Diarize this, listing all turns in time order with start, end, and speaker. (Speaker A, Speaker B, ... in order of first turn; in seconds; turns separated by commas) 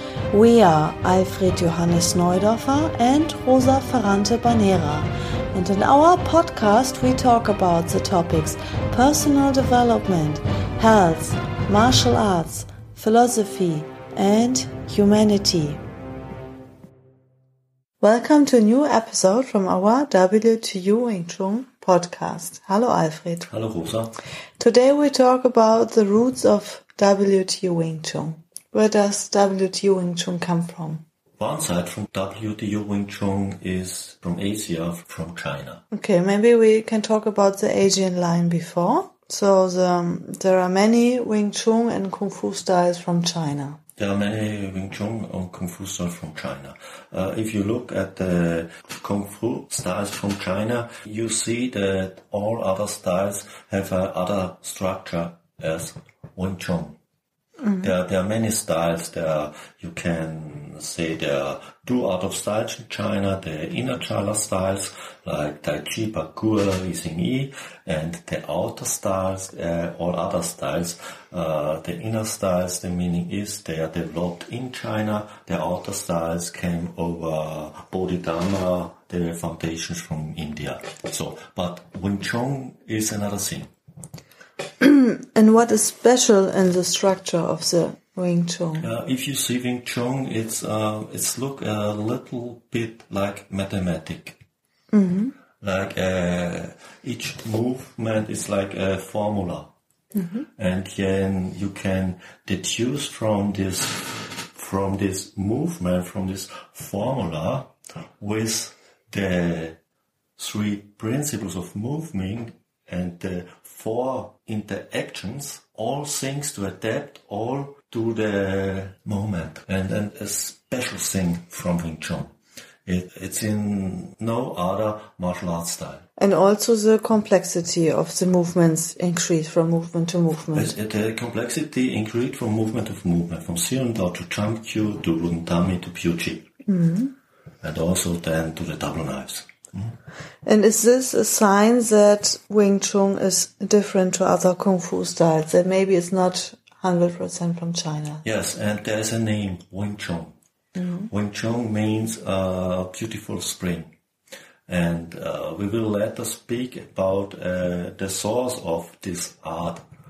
Speaker A: 0.3-15.8, Speaker A: 18.0-23.5, Speaker B: 23.5-24.2, Speaker A: 24.6-31.0, Speaker B: 31.4-35.8, Speaker A: 35.9-43.8, Speaker B: 44.0-57.0, Speaker A: 57.6-57.9, Speaker B: 57.8-83.7, Speaker A: 84.8-88.9, Speaker B: 88.8-94.4, Speaker A: 94.9-95.3, Speaker B: 95.6-99.7, Speaker A: 100.1-100.5, Speaker B: 100.6-109.8, Speaker B: 110.4-122.3, Speaker B: 122.9-126.0, Speaker A: 126.2-130.8, Speaker B: 130.5-136.5, Speaker A: 136.7-137.1, Speaker B: 137.6-140.0, Speaker A: 140.4-148.2, Speaker B: 148.2-150.3, Speaker A: 150.8-151.1, Speaker B: 151.1-153.9, Speaker B: 154.7-159.8